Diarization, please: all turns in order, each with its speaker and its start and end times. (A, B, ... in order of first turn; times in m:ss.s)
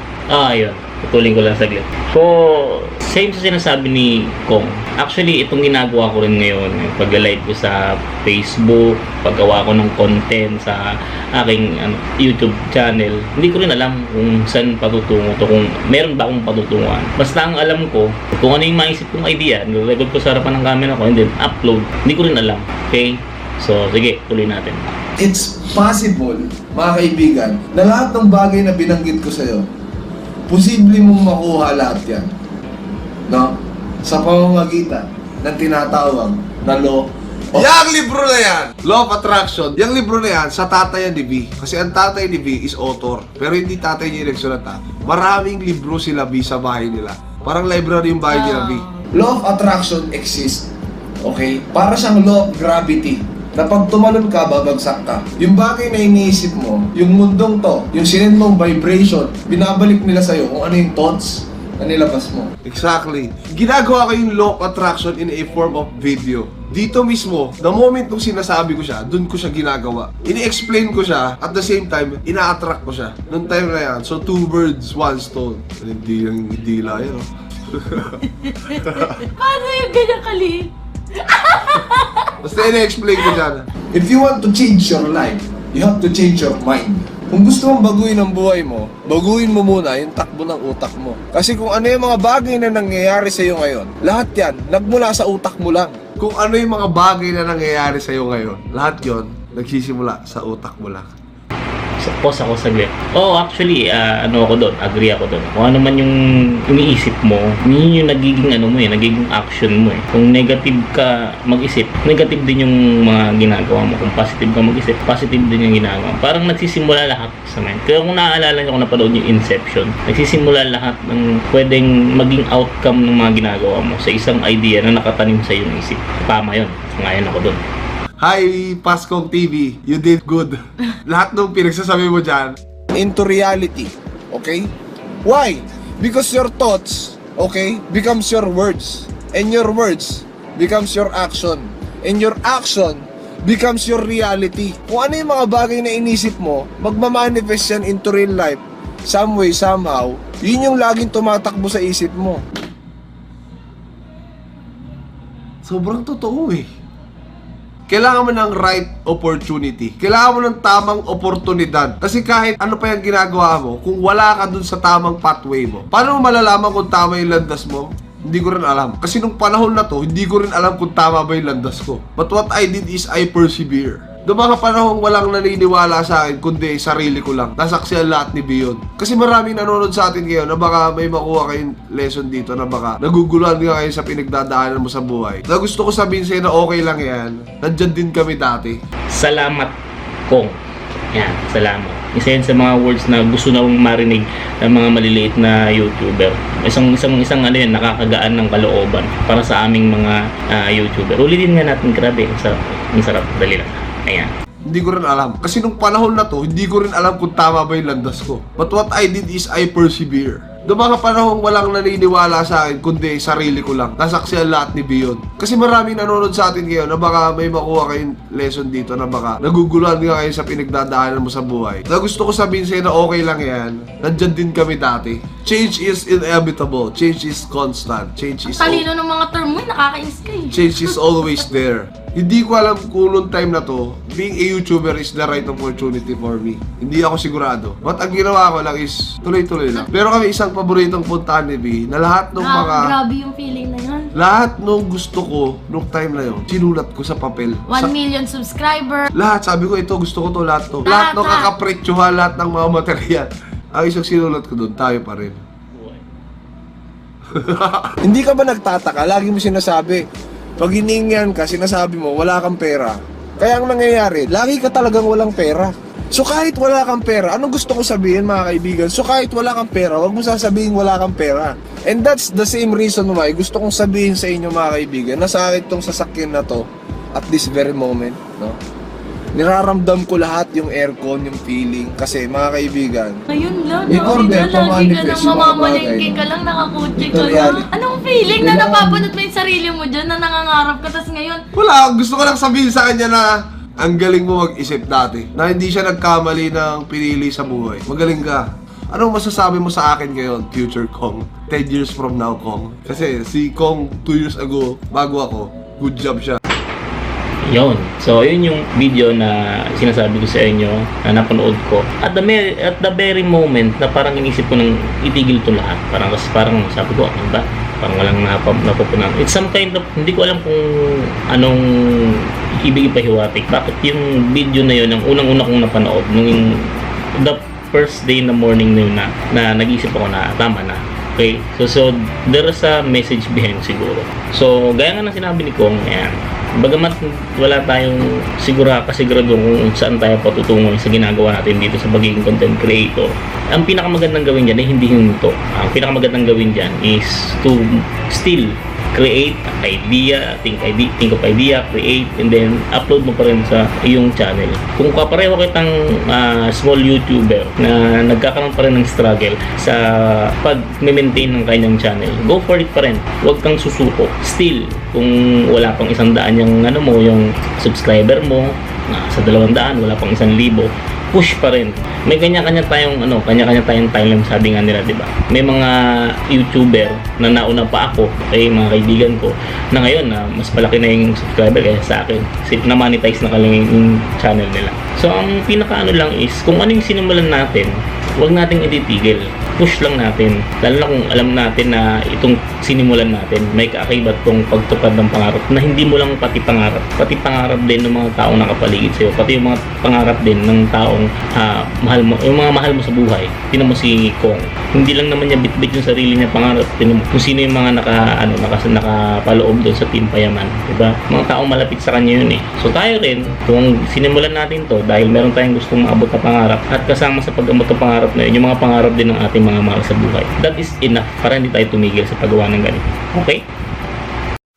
0:00.3-0:24.9 A
0:25.2-0:29.7 B
0:30.5-0:32.3 B
0:33.3-0:37.8 B
0:37.6-0:48.9 C
0:48.3-0:49.0 D
0:49.1-0:50.7 B
0:51.2-1:02.6 B
1:02.6-1:18.2 C
1:18.4-1:22.4 D
1:22.4-1:23.7 C
1:23.9-1:36.0 B
1:36.2-1:41.1 C
1:42.0-2:07.6 A
2:08.2-2:12.6 C
2:12.9-2:14.7 B
2:15.2-2:32.4 B
2:35.6-2:36.7 C
2:37.9-3:08.8 C
3:09.1-3:09.8 A
3:10.3-3:10.6 A
3:11.1-3:24.3 A
3:24.7-3:48.8 C
3:48.4-3:51.0 D
3:50.5-4:03.0 C
4:02.4-4:04.1 D
4:04.2-4:07.9 C
4:07.7-4:09.1 D
4:09.1-4:15.4 C
4:10.8-4:11.5 D
4:17.3-4:18.0 C
4:18.0-4:20.1 B
4:20.6-4:38.6 B
4:39.4-4:43.2 B
4:43.3-4:51.4 D
4:43.9-4:46.3 B
4:47.0-4:47.7 B
4:48.4-4:49.1 B
4:51.6-5:06.4 C
5:07.4-7:03.4 A